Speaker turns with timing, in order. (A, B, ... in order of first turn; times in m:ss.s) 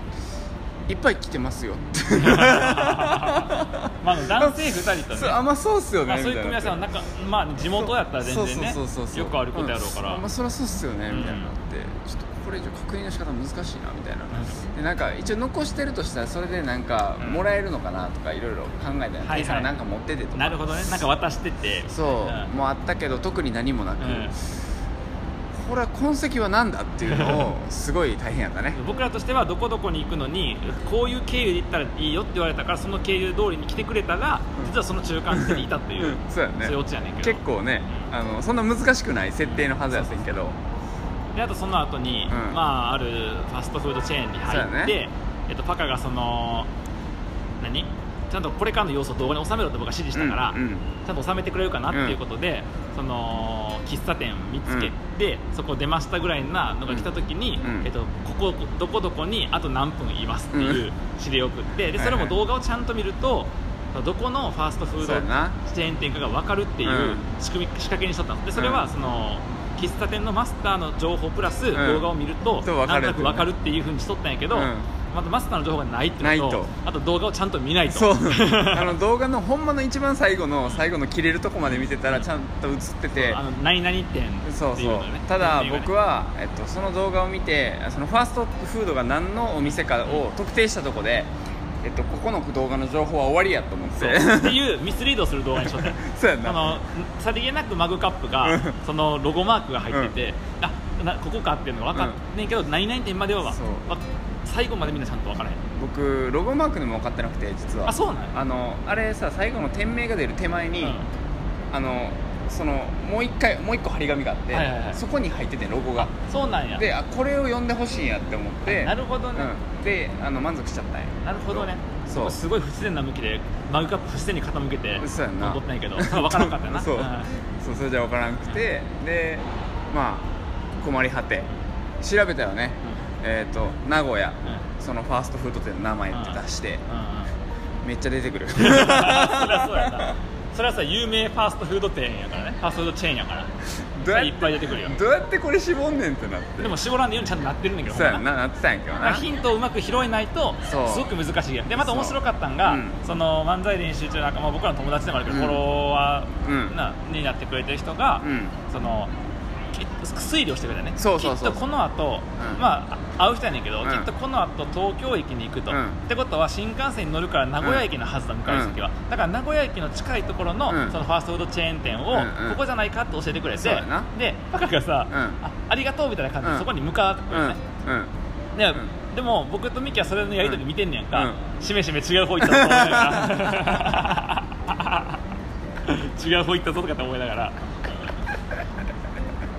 0:00.9-0:06.9 A
0:02.2-0:05.4 B
0:06.1-0:10.2 B
0:07.6-0:20.6 A
0:11.1-0:11.5 B
0:17.2-0:17.4 B
0:19.2-0:19.7 B
0:20.4-0:22.5 B
0:21.9-0:24.4 A
0:24.0-0:24.3 B
0:25.5-0:28.8 A
0:27.1-0:27.5 B
0:28.8-0:38.1 B
0:35.3-0:40.6 A
0:39.4-0:40.4 B
0:41.4-0:46.7 B
0:42.3-0:42.6 A
0:44.5-0:45.0 A
0:47.6-1:19.0 B
0:50.1-0:50.9 A
0:51.9-0:52.2 A
0:54.7-0:54.9 A
0:57.6-0:57.9 A
1:00.5-1:00.8 A
1:02.0-1:02.3 A
1:05.0-1:05.6 A
1:06.8-1:07.2 A
1:08.6-1:08.9 A
1:11.7-1:12.1 A
1:12.6-1:13.5 A
1:14.5-1:14.9 A
1:16.2-1:16.7 A
1:17.9-1:23.4 A
1:21.7-1:22.3 B
1:23.2-1:25.9 B
1:24.5-1:31.3 A
1:29.6-1:30.2 B
1:31.8-1:34.6 A
1:33.9-1:45.6 B
1:35.7-1:36.8 A
1:38.4-1:38.8 A
1:43.5-1:43.9 A
1:45.8-1:51.0 A
1:47.9-1:48.4 B
1:50.8-1:51.1 B
1:51.7-1:56.1 A
1:54.5-1:55.0 B
1:56.0-1:56.8 B
1:56.8-2:02.4 A
1:58.7-1:59.5 B
2:01.2-2:07.4 B
2:05.0-2:11.5 A
2:12.0-2:16.8 A
2:16.1-2:17.4 B
2:17.8-2:20.1 A
2:18.6-2:23.5 B
2:24.0-2:26.7 A
2:24.1-2:25.0 B
2:26.6-2:28.3 B
2:27.9-2:29.2 A
2:29.0-2:39.1 B
2:30.6-2:31.2 A
2:31.8-2:33.0 A
2:35.3-2:35.6 A
2:36.4-2:36.8 A
2:38.2-2:38.6 A
2:39.7-2:57.6 B
2:41.0-2:41.6 A
2:43.8-2:44.1 A
2:45.7-2:46.0 A
2:48.5-2:48.8 A
2:50.7-2:51.0 A
2:52.1-2:52.6 A
2:53.6-2:54.1 A
2:55.1-2:55.4 A
2:56.4-2:56.7 A
2:57.3-2:58.1 A
2:58.6-3:05.2 B
3:00.4-3:01.4 A
3:02.4-3:03.7 A
3:05.8-3:07.7 B